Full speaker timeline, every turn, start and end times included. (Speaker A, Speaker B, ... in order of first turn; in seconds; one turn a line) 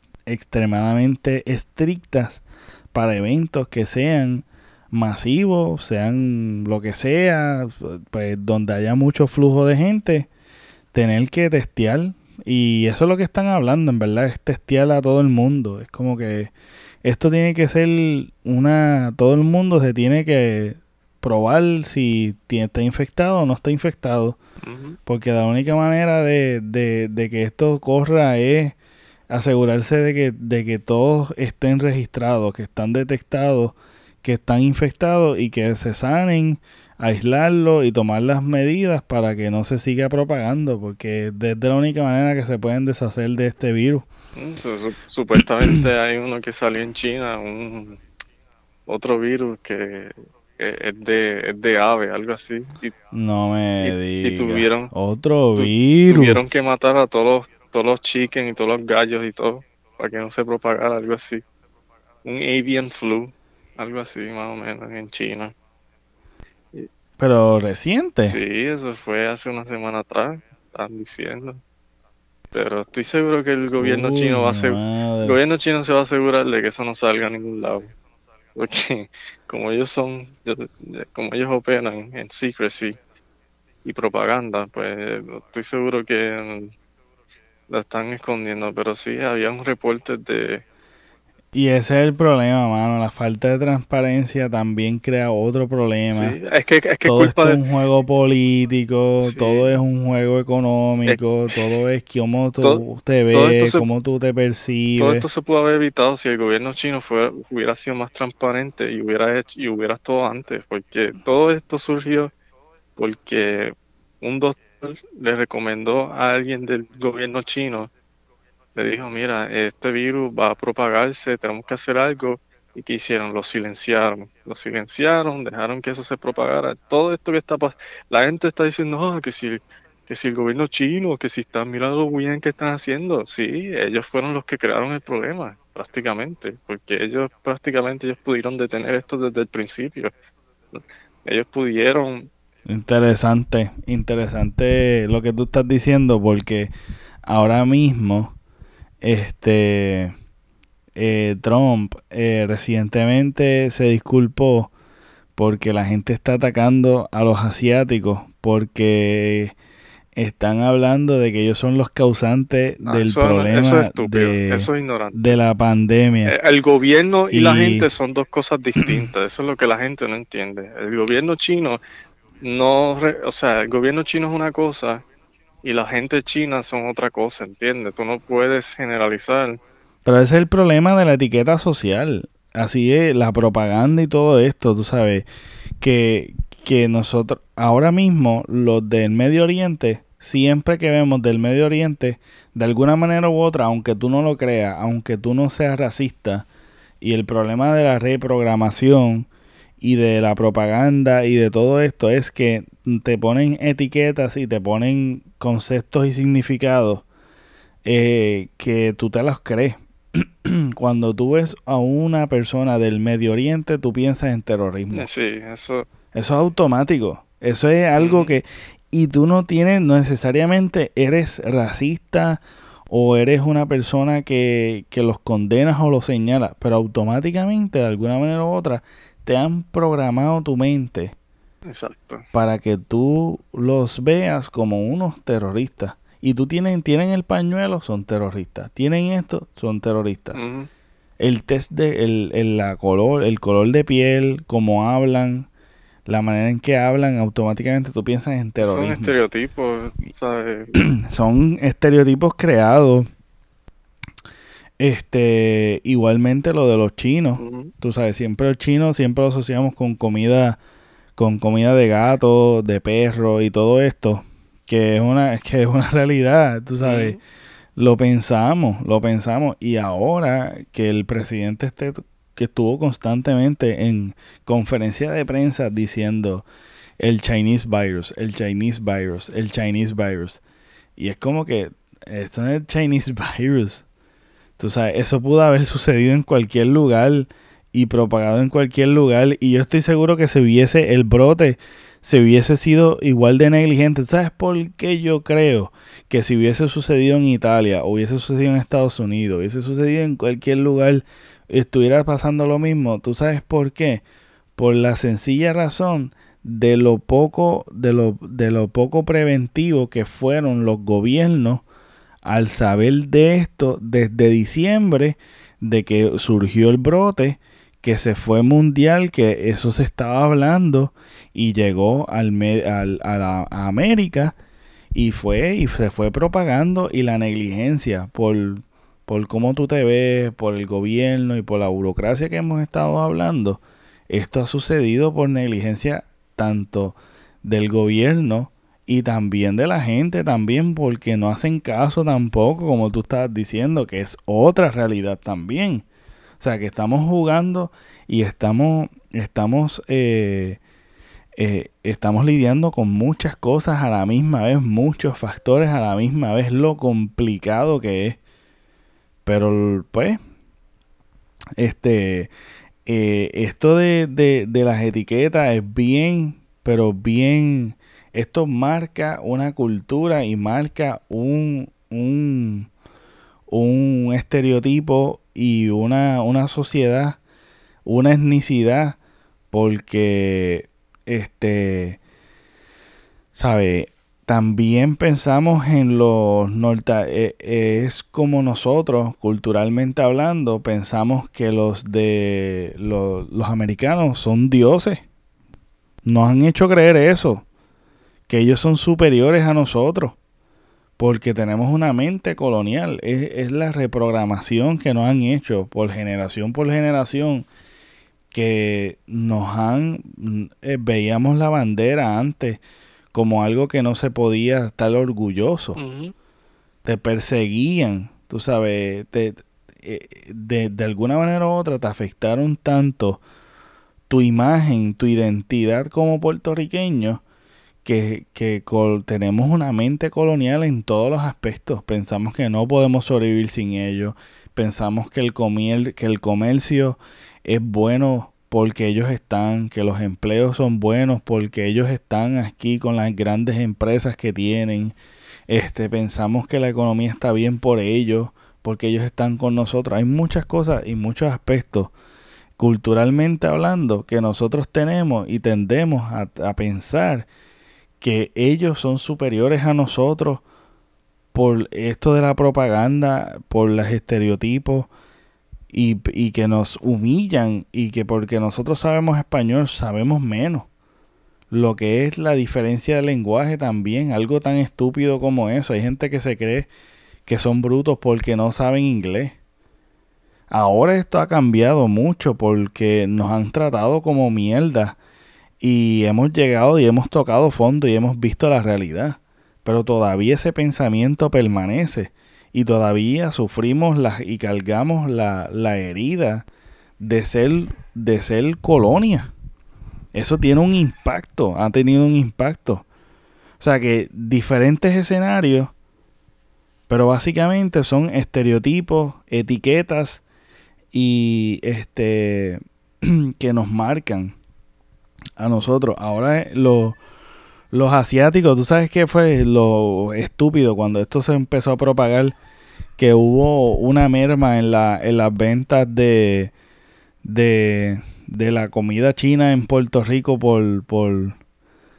Speaker A: 0.3-10.3
Speaker A: 10.9-16.5
Speaker A: 17.0-24.4
Speaker B: 24.6-25.0
Speaker A: 25.1-28.8
Speaker A: 29.3-44.0
Speaker B: 44.4-48.0
Speaker B: 48.9-53.0
Speaker A: 53.1-56.4
Speaker B: 53.8-54.9
Speaker B: 55.5-61.4
Speaker B: 62.2-65.5
Speaker A: 67.2-68.4
Speaker B: 68.3-71.6
Speaker B: 72.5-77.9
Speaker A: 73.8-75.4
Speaker B: 78.5-83.0
Speaker B: 83.8-86.7
Speaker B: 87.7-90.6
Speaker A: 91.5-96.3
Speaker B: 96.1-97.6
Speaker A: 97.0-105.2
Speaker B: 99.2-99.7
Speaker B: 101.1-101.6
Speaker B: 102.6-103.8
Speaker B: 105.0-112.3
Speaker B: 113.0-117.9
Speaker B: 118.8-140.1
Speaker B: 140.7-142.3
Speaker A: 142.7-146.7
Speaker A: 147.2-148.3
Speaker A: 149.0-150.1
Speaker A: 150.9-154.7
Speaker A: 155.4-159.5
Speaker A: 160.2-166.3
Speaker B: 162.8-165.4
Speaker B: 166.3-171.8
Speaker A: 167.3-167.9
Speaker A: 168.8-169.1
Speaker B: 172.4-175.0
Speaker B: 175.6-179.6
Speaker A: 180.0-185.2
Speaker A: 185.8-196.5
Speaker A: 197.0-199.3
Speaker A: 199.8-207.0
Speaker A: 207.8-215.1
Speaker B: 214.9-215.8
Speaker A: 216.1-231.1
Speaker B: 218.0-218.3
Speaker B: 231.7-232.2
Speaker A: 232.3-240.4
Speaker B: 240.3-240.7
Speaker A: 241.2-245.5
Speaker A: 246.1-249.1
Speaker B: 248.6-250.8
Speaker A: 250.7-253.1
Speaker A: 254.8-260.6
Speaker B: 257.4-257.7
Speaker A: 261.2-267.2
Speaker B: 266.8-267.2
Speaker A: 267.8-276.4
Speaker A: 277.0-280.4
Speaker A: 281.0-283.9
Speaker A: 284.6-304.0
Speaker A: 304.6-311.6
Speaker A: 312.2-324.4
Speaker A: 324.9-345.9
Speaker A: 346.4-350.6
Speaker A: 351.4-358.2
Speaker A: 359.2-360.2
Speaker A: 361.6-362.3
Speaker A: 362.9-372.7
Speaker A: 373.5-377.2
Speaker A: 377.8-379.0
Speaker A: 379.5-382.0
Speaker A: 383.3-395.0
Speaker A: 396.0-397.4
Speaker A: 398.3-400.2
Speaker A: 401.0-407.5
Speaker A: 408.3-412.6
Speaker A: 413.1-415.8
Speaker B: 415.8-416.1
Speaker A: 416.8-423.2
Speaker A: 424.1-427.2
Speaker A: 427.8-444.9
Speaker A: 445.5-451.9
Speaker A: 452.6-457.3
Speaker A: 458.0-460.4
Speaker A: 461.3-464.9
Speaker A: 465.7-470.7
Speaker A: 471.5-476.7
Speaker A: 477.3-479.3
Speaker A: 480.5-485.0
Speaker A: 485.6-496.4
Speaker A: 497.0-499.3
Speaker A: 500.1-502.8
Speaker A: 503.6-505.7
Speaker A: 506.9-510.2
Speaker A: 510.9-514.3
Speaker A: 515.4-517.0
Speaker A: 517.7-522.3
Speaker A: 523.0-526.5
Speaker A: 527.2-531.4